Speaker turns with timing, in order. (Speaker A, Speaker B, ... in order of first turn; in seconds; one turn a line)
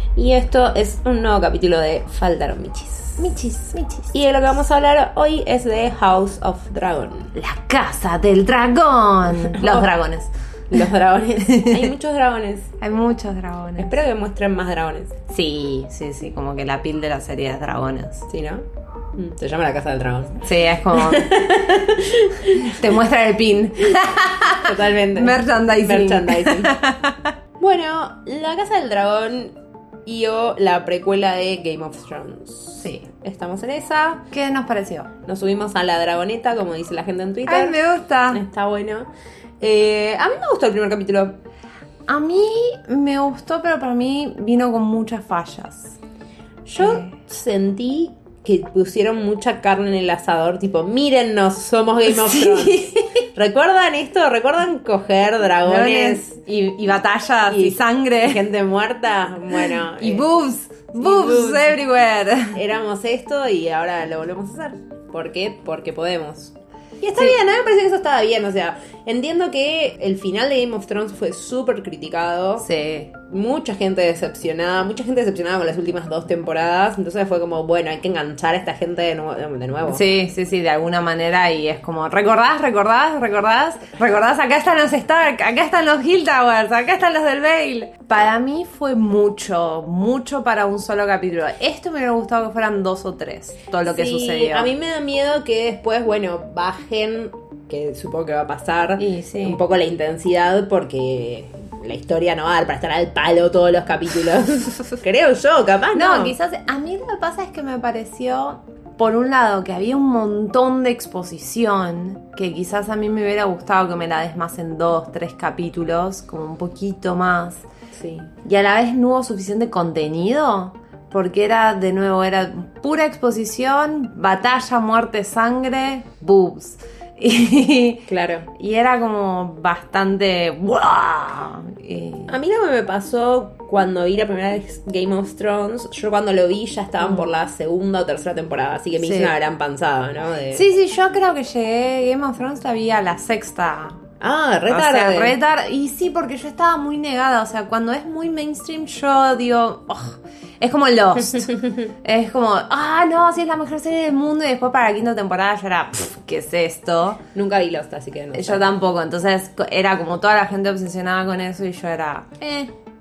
Speaker A: 0.1-3.3
Speaker B: 3.2-4.1
Speaker A: 4.1-7.3
Speaker B: 7.3-10.8
Speaker A: 9.4-9.9
Speaker A: 10.7-12.7
Speaker B: 11.4-11.9
Speaker B: 12.8-13.9
Speaker A: 13.8-15.1
Speaker B: 15.3-18.3
Speaker A: 18.3-18.6
Speaker A: 19.1-22.8
Speaker B: 20.4-21.3
Speaker B: 22.6-27.3
Speaker A: 24.6-26.7
Speaker A: 27.6-29.5
Speaker A: 30.1-34.2
Speaker B: 34.3-35.1
Speaker A: 35.2-39.1
Speaker B: 37.5-38.4
Speaker A: 39.6-41.4
Speaker B: 42.1-46.0
Speaker A: 46.6-56.3
Speaker B: 46.8-47.0
Speaker B: 52.1-53.2
Speaker B: 55.6-58.4
Speaker A: 57.5-60.3
Speaker B: 59.6-62.6
Speaker A: 60.9-61.8
Speaker A: 62.5-72.7
Speaker B: 72.6-73.1
Speaker A: 73.3-80.0
Speaker B: 79.9-94.7
Speaker A: 93.8-106.3
Speaker B: 99.0-99.6
Speaker B: 105.9-117.7
Speaker A: 118.0-118.3
Speaker B: 118.4-132.3
Speaker A: 128.1-128.5
Speaker A: 132.3-140.6
Speaker B: 139.0-139.3
Speaker B: 140.5-144.0
Speaker A: 144.2-145.3
Speaker B: 144.7-157.2
Speaker A: 157.3-158.6
Speaker B: 158.3-162.7